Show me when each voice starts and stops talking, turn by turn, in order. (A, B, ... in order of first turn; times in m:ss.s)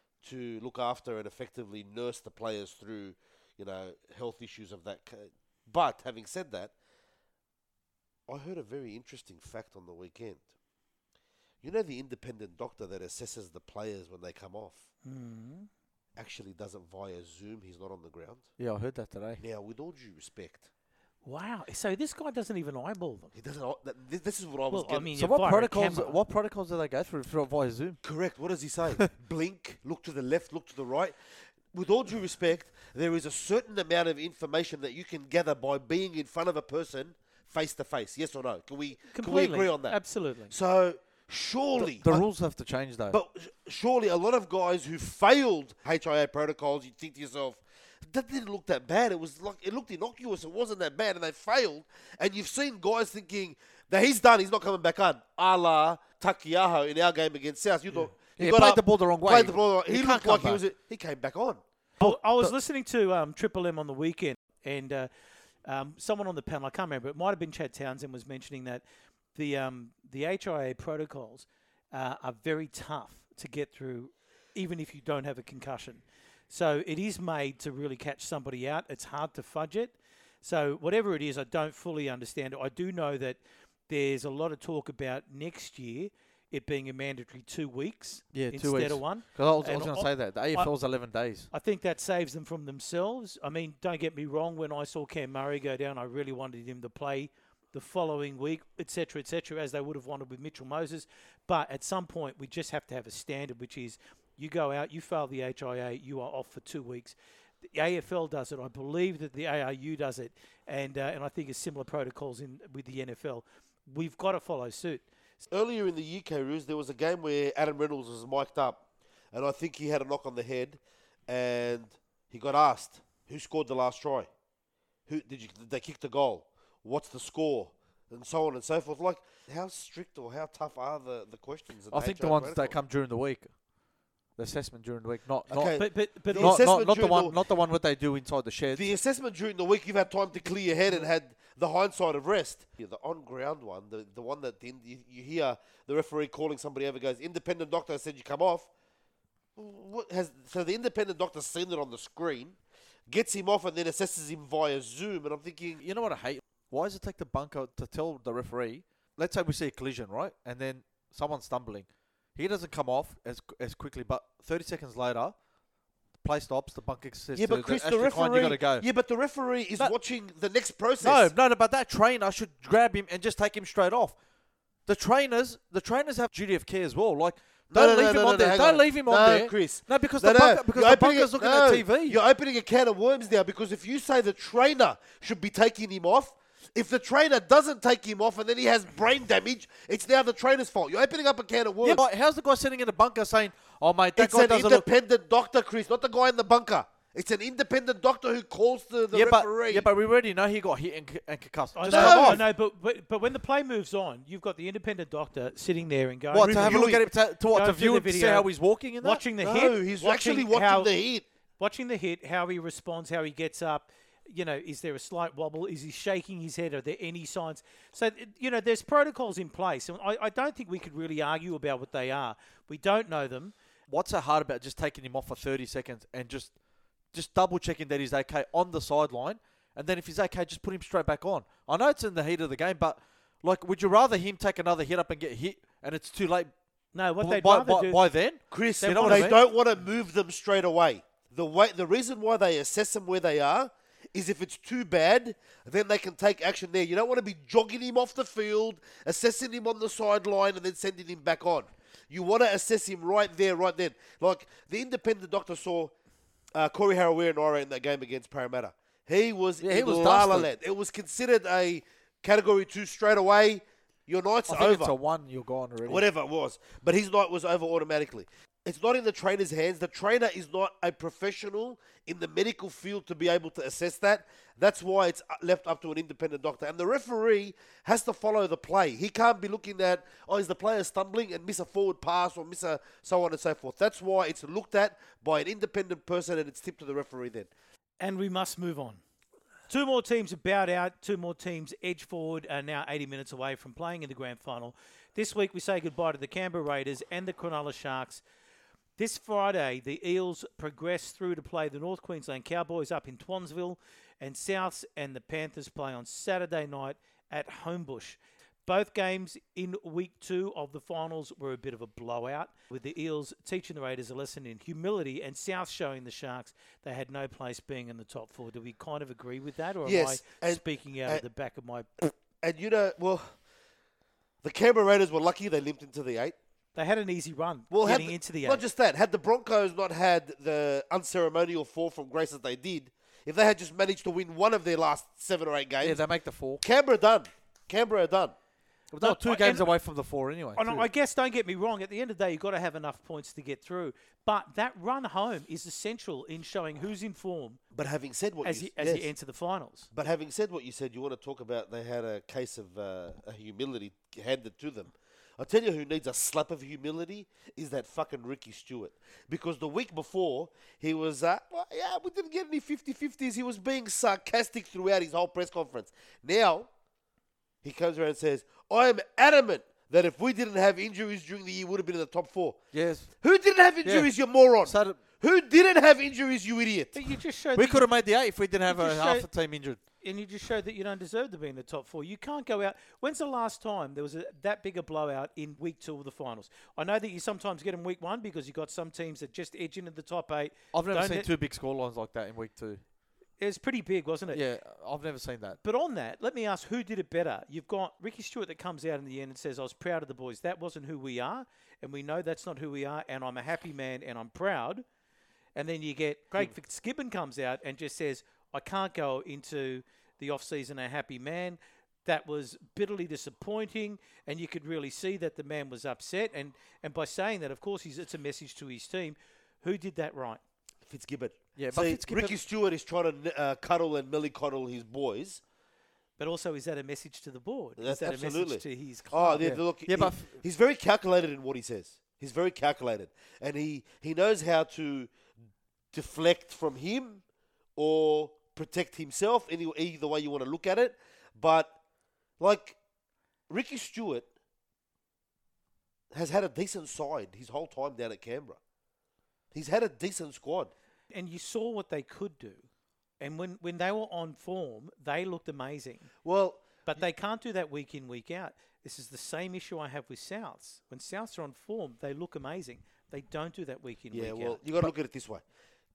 0:00.2-0:06.7 A
0:08.3-0:10.4 A
0:11.6-0:14.8 A
0:15.0-0:15.7 B
0:16.2-0:18.5 A
0:18.6-0:19.4 C
0:19.4-0:20.6 A
0:21.2-0:23.3 B
0:23.3-0:25.1 A
0:24.7-0:26.2 B
0:25.2-0:28.0 C
0:28.0-0:31.2 A
0:31.7-0:42.2 A
0:39.1-0:40.5 B
0:41.8-0:43.2 C
0:43.1-1:01.6 A
0:58.4-1:00.6 C
1:02.0-1:05.1 B
1:02.0-1:02.5 C
1:05.6-1:08.8 B
1:09.3-1:30.7 B
1:28.3-1:31.5 C
1:31.5-1:47.2 B
1:47.7-1:55.0 B
1:55.5-2:04.3 A
2:05.1-2:12.8 A
2:11.9-2:13.5 C
2:14.4-2:18.9 C
2:15.5-2:17.4 A
2:15.7-2:16.6 B
2:18.7-2:28.7 A
2:29.6-2:32.6 A
2:33.1-2:35.8 A
2:35.8-2:45.3 C
2:46.2-2:48.8 C
2:47.3-2:51.3 A
2:51.0-2:54.2 C
2:54.9-3:02.2 C
2:57.7-3:12.0 A
3:11.8-3:14.8 C
3:14.2-3:19.9 A
3:19.1-3:22.4 C
3:21.7-3:26.9 B
3:21.9-3:22.4 A
3:26.3-3:29.2 C
3:26.4-3:27.0 A
3:27.5-3:28.5 B
3:29.0-3:30.9 B
3:29.4-3:31.2 A
3:31.6-3:43.5 B
3:43.9-3:46.5 C
3:47.1-3:56.5 C
3:56.9-3:58.0 B
3:57.2-3:59.4 C
3:58.5-4:15.9 A
3:58.8-3:59.4 B
4:16.5-4:24.9 A
4:19.6-4:20.5 C
4:24.5-4:26.0 C
4:25.8-4:47.5 A
4:48.0-4:49.0 B
4:49.7-4:58.2 B
4:59.0-5:21.9 B
5:19.8-5:21.2 A
5:22.0-5:23.4 A
5:24.4-5:26.4 A
5:26.7-5:28.6 B
5:27.7-5:36.0 A
5:35.8-5:36.6 C
5:36.6-5:38.3 A
5:38.9-5:40.9 C
5:39.0-5:39.7 B
5:40.6-5:47.6 B
5:47.7-5:49.1 A
5:48.4-5:49.9 B
5:49.9-6:06.7 A
6:07.6-6:12.6 A
6:12.7-6:13.1 C
6:13.2-6:16.9 A
6:13.8-6:14.1 C
6:14.6-6:15.0 C
6:16.9-6:17.8 B
6:17.6-6:19.8 C
6:18.7-6:19.3 B
6:20.0-6:31.3 B
6:30.7-6:32.8 C
6:33.4-6:34.4 B
6:34.3-6:35.6 C
6:35.6-6:44.8 B
6:45.6-7:00.4 B
7:00.8-7:05.4 A
7:01.6-7:02.4 C
7:06.2-7:09.4 B
7:07.8-7:15.1 A
7:09.4-7:10.3 C
7:15.9-7:17.2 A
7:17.8-7:21.8 A
7:22.4-7:22.8 A
7:23.5-7:24.3 A
7:26.1-7:28.6 A
7:29.5-7:30.7 A
7:31.1-7:32.6 B
7:33.2-7:36.1 B
7:36.2-7:36.8 A
7:36.8-7:44.9 B
7:44.1-7:45.4 A